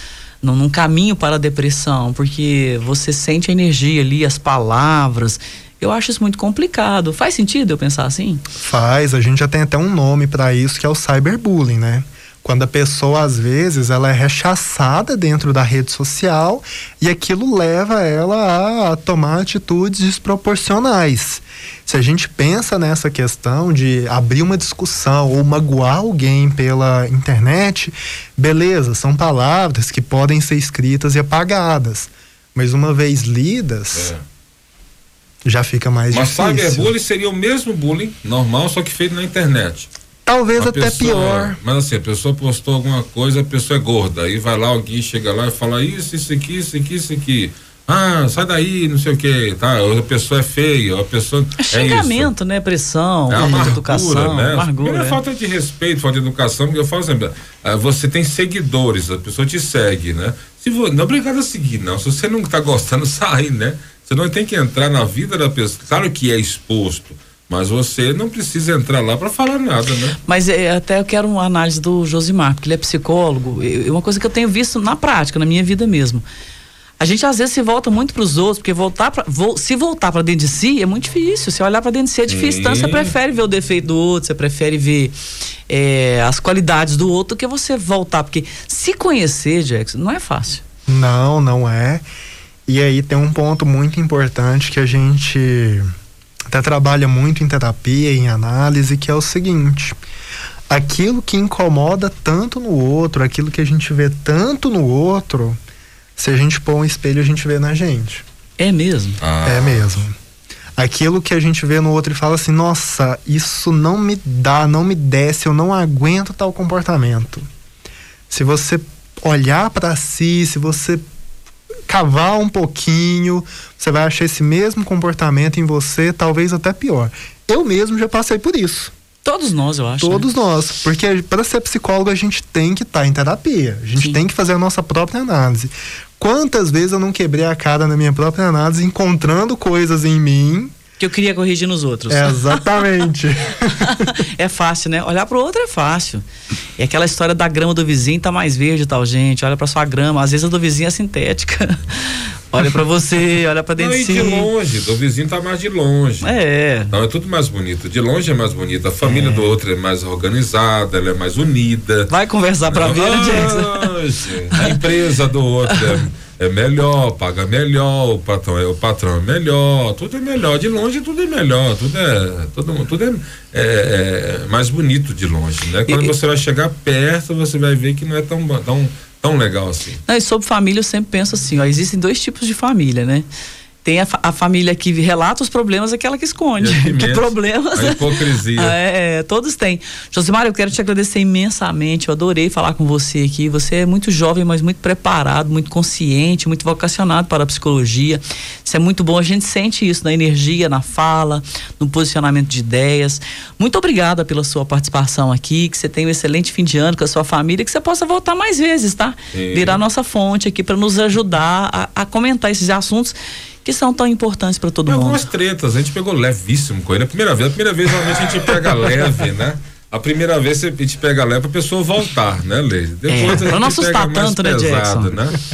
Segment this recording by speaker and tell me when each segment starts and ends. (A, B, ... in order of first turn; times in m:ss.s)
0:00.4-0:08.4 A
0:08.6-0:34.1 B
0:33.9-0:34.2 C
0:35.4-0:36.9 B
0:36.1-0:39.9 C
0:40.3-0:41.6 B
0:40.6-0:52.3 C
0:51.6-0:55.2 A
0:53.3-1:10.2 C
1:10.3-1:16.2 A
1:17.0-1:25.2 A
1:22.3-1:23.1 C
1:25.7-1:30.6 A
1:30.9-1:32.0 B
1:32.7-1:35.9 B
1:36.5-1:40.0 B
1:40.7-1:45.6 B
1:46.2-1:48.2 B
1:48.6-1:49.2 A
1:49.2-1:50.0 C
1:49.4-1:50.2 B
1:50.8-1:57.5 B
1:58.3-2:01.0 B
2:01.9-2:08.9 B
2:09.2-2:10.3 A
2:10.0-2:20.7 B
2:21.0-2:22.6 A
2:22.1-2:24.0 B
2:23.9-2:26.2 A
2:26.8-2:34.5 A
2:33.8-2:36.3 C
2:36.2-2:36.9 A
2:36.9-2:42.1 C
2:39.0-2:39.5 A
2:42.1-2:44.0 A
2:42.7-3:00.0 C
2:44.5-2:44.9 A
2:45.7-2:46.0 A
2:55.9-2:56.1 A
3:00.1-3:03.3 A
3:03.8-3:35.2 A
3:06.6-3:08.8 C
3:29.3-3:29.8 C
3:34.9-3:45.4 C
3:43.1-3:45.1 A